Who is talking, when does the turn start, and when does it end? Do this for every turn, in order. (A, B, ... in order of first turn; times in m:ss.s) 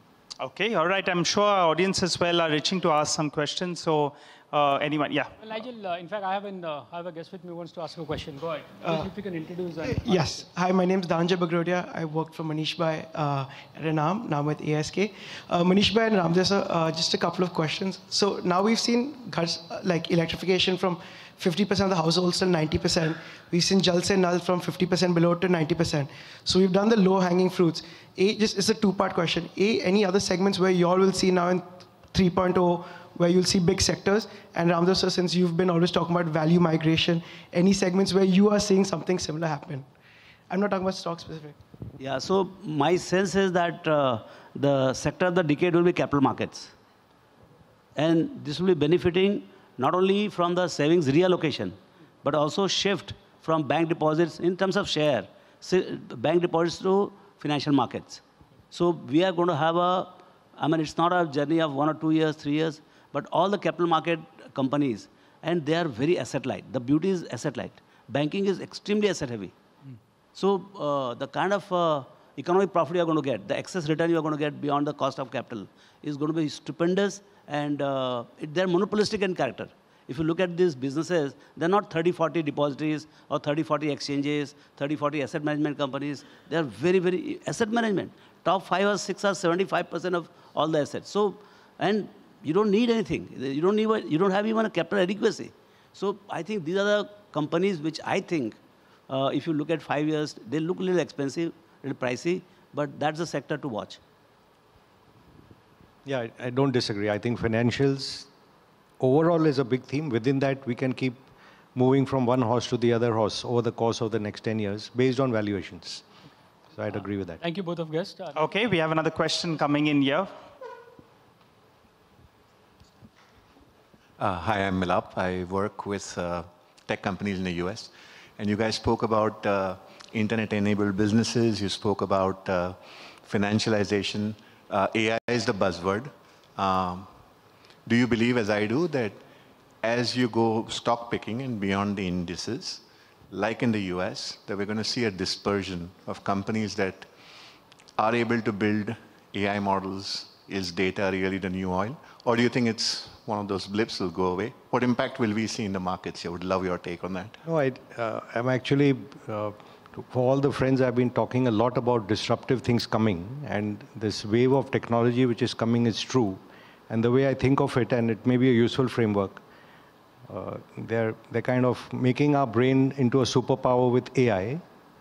0:00.4-0:05.3 A
0:05.4-0:10.4 B
0:08.8-0:09.1 C
0:09.8-0:39.9 C
0:40.5-0:41.6 C
0:42.0-0:46.7 D
0:48.0-1:09.5 D
1:10.3-1:38.6 D
1:39.1-1:44.0 D
1:46.0-1:48.3 E
1:49.0-1:56.0 E
1:56.7-1:57.4 E
1:57.4-1:58.4 B
1:58.3-2:00.3 A
2:04.2-2:17.1 F
2:17.8-2:19.2 F
2:19.8-2:27.1 F
2:28.0-2:37.4 F
2:37.4-2:49.4 E
2:50.3-2:54.6 E